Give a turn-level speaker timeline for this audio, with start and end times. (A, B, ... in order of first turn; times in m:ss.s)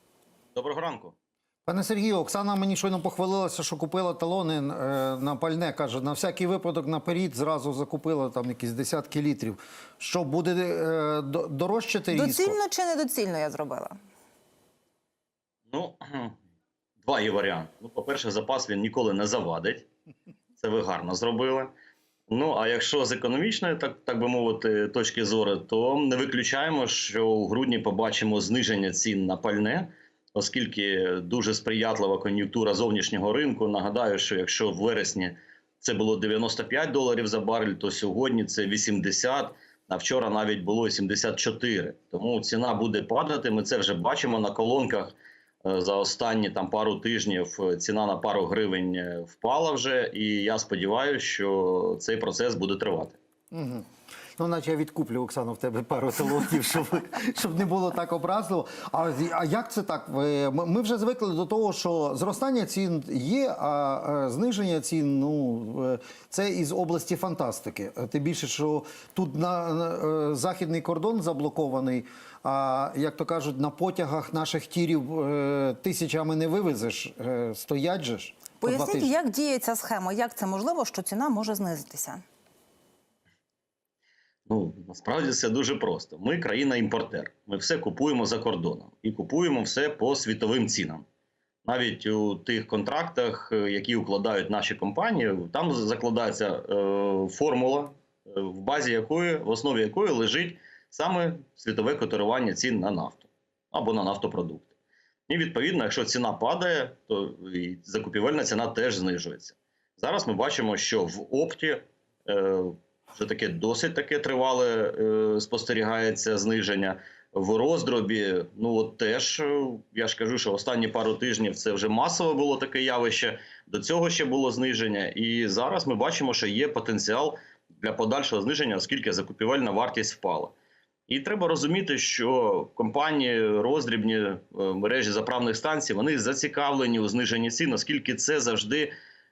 0:00.6-0:01.2 A
0:01.6-0:12.6 B
0:12.1-0:14.0 C
0:15.7-0:16.4 A
0:17.0-0:19.9 A
0:20.6-0:21.7 A
0:22.3-0:53.2 A
0:53.5-0:53.9 B
0:54.4-1:19.1 B
1:18.6-1:22.2 C
1:24.5-1:31.1 A
1:31.6-1:44.7 A
1:45.3-2:10.6 A
2:11.1-2:18.9 A